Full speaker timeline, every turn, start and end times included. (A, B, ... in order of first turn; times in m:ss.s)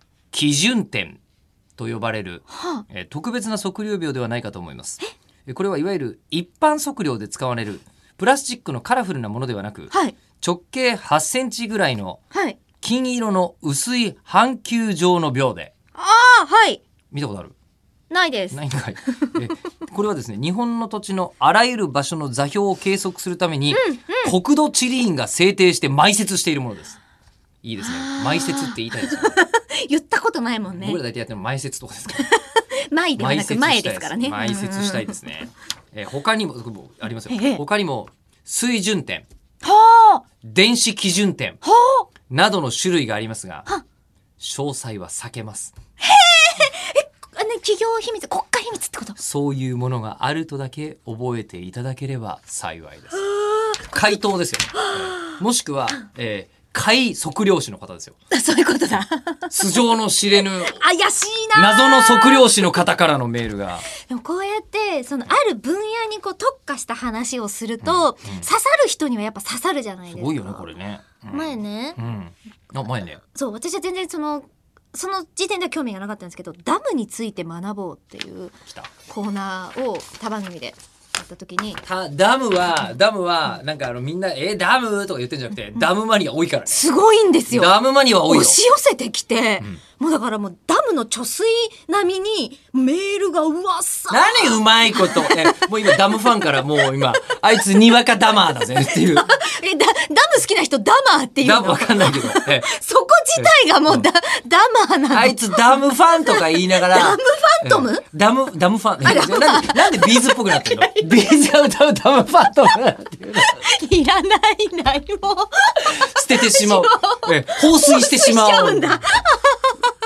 0:00.3-0:01.2 A
0:01.8-0:12.2 A
0:02.5-0:02.8 B
0:09.9-0:10.2 B
0:12.3-0:12.6 B
0:12.8-0:15.7 A
0:16.0-0:16.8 B
0:17.1-0:17.5 A
0:18.1-0:19.4 B
0:18.5-0:27.0 A
0:23.7-0:24.3 B
0:27.6-0:29.4 A
0:27.8-0:31.0 B
0:30.7-0:32.3 A
0:32.2-0:35.2 B
0:33.2-0:39.2 A
0:37.3-0:37.6 B
0:39.6-0:40.2 B
0:40.4-0:41.6 A
0:41.6-0:42.1 B
0:42.3-0:43.7 A
0:44.4-0:45.7 A
0:46.0-0:49.2 B
0:49.2-0:53.2 A
0:53.1-0:53.9 B
0:53.9-0:58.2 A
0:54.7-0:55.4 B
0:58.3-0:59.8 B
0:59.5-1:00.8 A
1:00.6-1:02.5 B
1:01.5-1:03.8 A
1:03.9-1:10.7 B
1:07.8-1:08.5 A
1:10.1-1:13.2 A
1:11.3-1:12.0 B
1:13.3-1:21.8 B
1:21.8-1:26.9 A
1:26.7-1:36.5 B
1:27.5-1:28.6 A
1:34.1-1:39.3 A
1:38.6-1:48.0 B
1:41.4-1:42.7 A
1:43.3-1:44.1 A
1:45.1-1:53.6 A
1:49.0-1:51.3 B
1:53.4-1:59.9 B
1:55.9-1:59.0 A